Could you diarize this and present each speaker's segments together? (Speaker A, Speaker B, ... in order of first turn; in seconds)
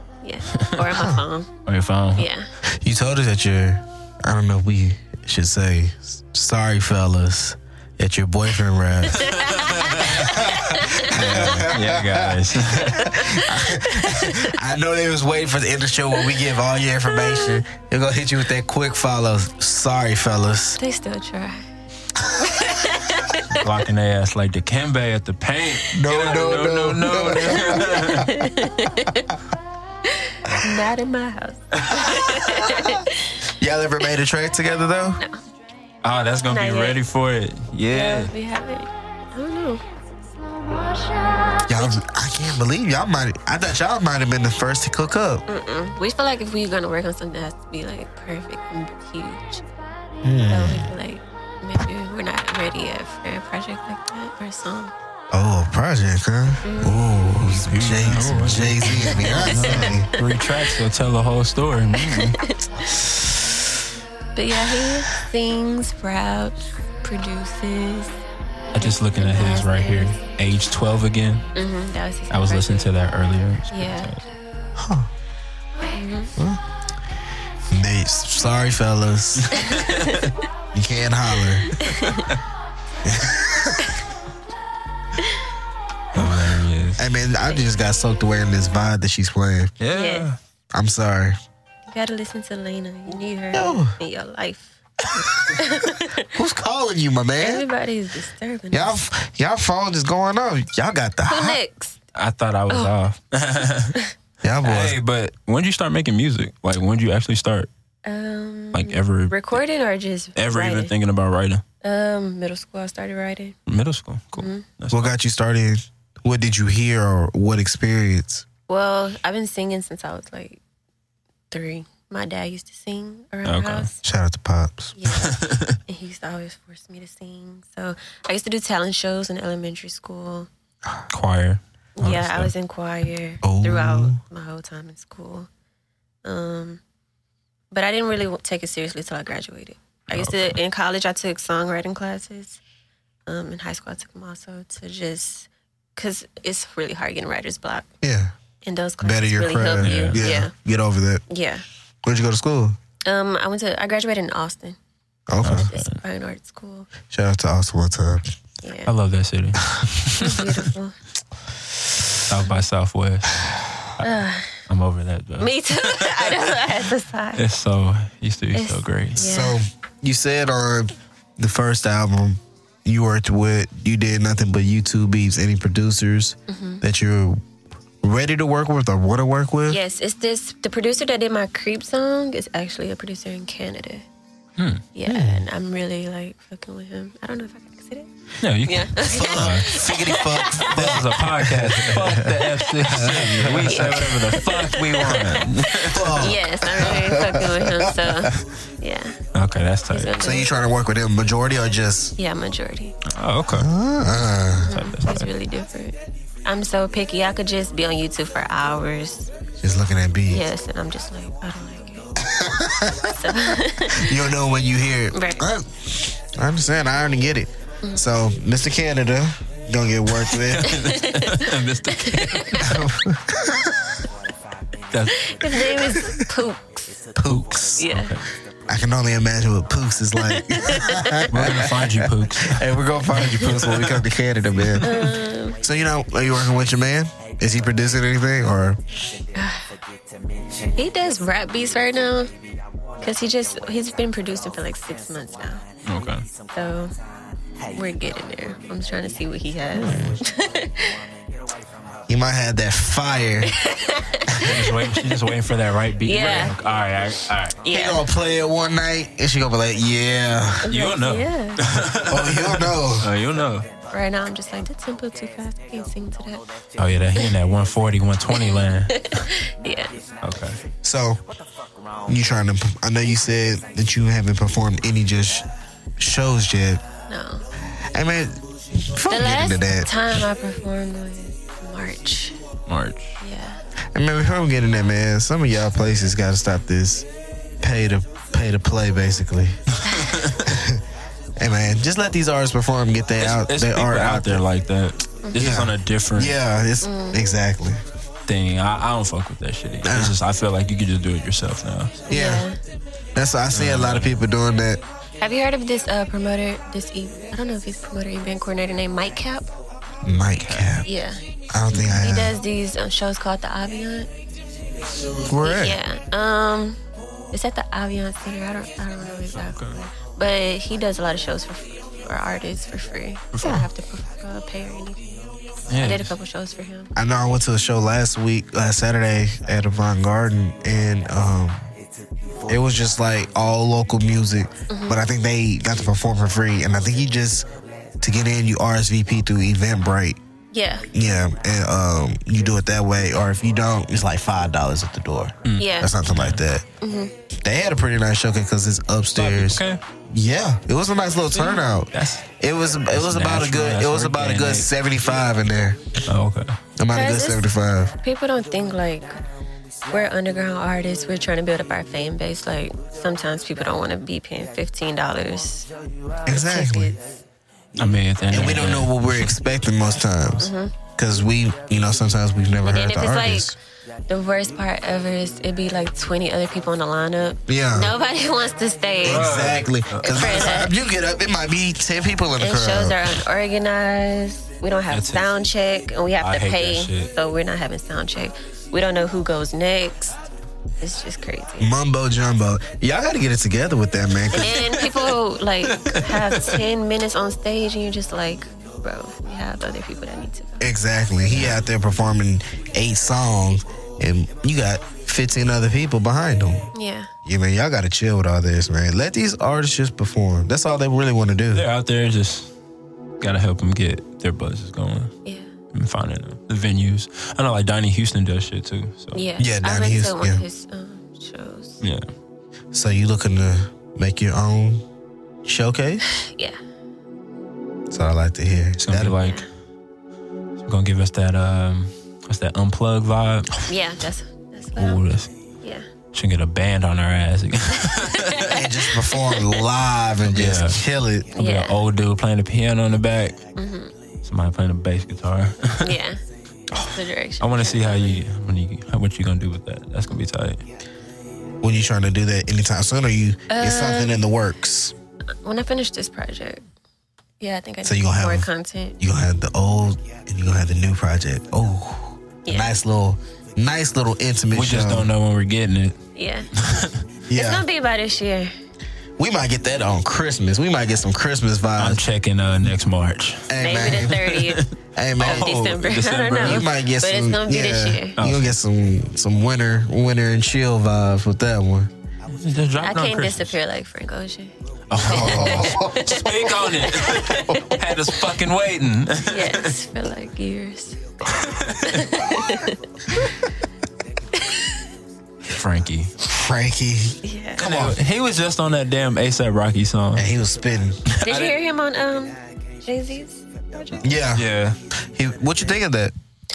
Speaker A: 0.2-1.5, 2.1-2.5, 9.1-11.5, 12.8-14.6, 17.1-17.6, 20.8-21.7, 22.4-23.7, 27.7-29.4, 30.0-33.5, 36.5-37.0, 37.9-39.8, 41.8-42.0, 45.5-49.6, 50.5-54.9, 56.6-57.0, 58.8-60.5, 62.0-62.9, 64.3-68.2, 68.8-70.2, 71.5-72.9, 73.7-74.1, 75.9-76.3, 79.5-80.4, 81.7-82.3, 85.2-85.4, 89.9-90.3, 91.9-96.3, 97.4-98.9, 101.3-102.0, 108.0-110.9, 111.8-113.5, 114.3-114.7, 118.7-120.6, 121.5-123.9, 125.0-130.5, 132.0-135.5, 136.2-136.8, 137.7-142.6, 143.3-147.9, 148.6-150.5, 151.3-151.6, 153.0-154.8, 155.4-156.9, 158.6-158.9, 160.2-161.0, 164.0-164.6, 165.4-167.4, 168.5-169.6, 176.5-176.8, 179.7-184.1, 184.9-188.1, 188.6-191.1, 191.9-192.7, 193.5-199.2, 199.9-200.5, 202.2-202.9, 204.6-209.3, 210.3-212.2, 213.1-214.1, 215.1-215.5, 220.6-222.8, 225.1-227.1, 227.8-228.1, 230.2-231.3, 233.2-233.5, 234.8-235.6, 239.3-239.8, 240.7-242.3, 243.0-245.6, 246.5-246.9, 247.7-251.0, 253.5-255.3, 256.0-256.5, 257.6-258.0, 260.6-261.6, 263.9-266.4, 268.3-270.0, 277.1-277.4, 279.1-282.4, 283.2-283.6, 289.8-290.2, 295.2-295.5, 296.8-297.2, 302.1-302.6, 305.2-309.5, 310.8-314.1, 315.4-316.8, 317.3-325.2, 325.8-326.9, 334.7-335.0, 340.5-340.9, 345.6-345.9, 346.8-347.1, 351.3-351.6, 356.9-357.5, 358.0-359.1, 359.9-365.7, 366.2-367.0, 370.4-370.8, 372.6-373.5, 374.1-379.3, 380.0-380.7, 382.4-390.2, 390.8-391.7, 394.3-400.7, 406.7-407.1, 415.2-415.5, 419.1-421.8, 426.1-426.6, 429.2-429.4, 433.6-435.0, 435.6-435.9, 437.9-439.6, 441.4-441.8, 443.6-443.9, 445.8-448.2, 453.5-454.2, 455.4-456.6, 457.4-459.0, 462.4-462.7, 466.1-466.5, 467.3-468.5, 473.6-474.6, 475.2-478.2, 482.8-488.0, 489.2-493.4, 494.3-494.9, 497.2-497.6, 501.2-504.0
Speaker B: 0.5-0.9, 1.6-2.3, 9.4-13.1, 23.5-28.3, 36.0-38.3, 57.4-62.4, 68.7-71.5, 72.3-74.2, 79.5-80.3, 81.8-82.4, 86.1-87.0, 89.8-90.4, 102.1-104.0, 104.6-107.7, 108.7-109.6, 110.3-111.6, 113.7-115.1, 123.4-123.9, 125.1-125.8, 131.1-132.5, 140.1-140.6, 149.8-150.3, 155.4-156.0, 158.8-160.7, 162.2-166.5, 167.3-169.3, 184.6-184.8, 188.4-189.8, 190.5-196.3, 199.3-200.2, 203.1-203.7, 204.7-205.3, 220.3-222.7, 224.9-225.8, 227.2-228.2, 231.3-232.7, 233.5-233.9, 234.6-235.0, 245.8-246.2, 254.4-257.6, 260.7-263.7, 266.8-269.2, 270.2-270.6, 282.7-283.2, 289.7-290.5, 293.2-296.4, 298.3-302.1, 303.5-304.2, 310.4-310.8, 319.3-319.8, 325.7-326.1, 345.4-346.4, 349.1-349.8, 351.5-352.2, 352.9-354.7, 356.1-356.6, 367.8-369.4, 379.0-380.6, 384.9-385.3, 386.2-387.1, 394.6-395.0, 395.6-396.6, 401.3-401.6, 411.5-412.5, 413.2-415.1, 415.7-419.2, 428.8-429.4, 430.6-433.6, 434.8-435.3, 436.1-438.6, 440.3-440.8, 441.4-443.4, 444.2-446.0, 446.7-450.6, 464.5-466.0, 466.5-467.0, 471.8-476.7, 478.2-478.5, 482.3-483.6, 484.9-489.7, 491.3-492.1, 495.4-496.1, 497.6-500.3, 501.1-501.5, 504.3-504.8
Speaker C: 0.9-1.2, 2.6-9.4, 10.0-20.8, 25.9-28.4, 30.5-30.7, 31.9-33.1, 33.6-35.2, 41.6-45.4, 50.2-50.9, 55.3-60.1, 74.8-75.1, 77.7-79.6, 80.7-81.7, 83.0-83.9, 86.1-89.7, 90.7-91.3, 93.5-94.0, 95.0-97.7, 98.7-101.6, 104.4-105.0, 114.9-118.4, 124.0-125.0, 133.4-134.2, 148.0-148.3, 149.0-151.2, 152.0-152.8, 155.3-155.7, 157.1-158.2, 169.1-177.4, 178.0-179.8, 185.1-185.4, 189.0-194.1, 195.7-198.4, 200.2-202.1, 203.5-204.8, 209.6-210.4, 212.2-213.2, 213.9-220.8, 222.6-224.0, 227.1-227.9, 228.7-235.0, 235.6-238.8, 249.7-250.2, 252.1-253.5, 254.3-254.6, 257.7-260.7, 261.9-263.1, 270.8-271.2, 272.1-275.4, 276.0-276.8, 277.9-279.9, 283.9-287.1, 287.6-289.6, 290.4-290.8, 291.4-294.4, 295.3-297.8, 299.8-300.1, 302.1-302.4, 303.1-304.8, 310.0-310.9, 311.5-312.4, 315.2-315.8, 323.4-323.7, 326.9-331.7, 332.5-337.5, 338.0-340.2, 340.9-346.6, 347.4-356.0, 356.8-357.9, 366.2-366.9, 368.3-373.6, 377.5-377.9, 379.0-383.2, 391.6-394.8, 400.6-406.7, 407.2-411.7, 419.4-420.4, 422.7-424.8, 425.4-426.0, 427.9-429.2, 438.5-441.3, 451.6-454.9, 457.8-458.5, 459.0-465.1, 467.3-467.6, 469.2-472.0, 473.5-474.2, 474.9-475.7, 476.4-481.9, 485.0-486.3, 487.3-487.7, 492.2-492.7, 496.2-498.0, 500.1-501.0, 504.0-504.5, 505.1-506.1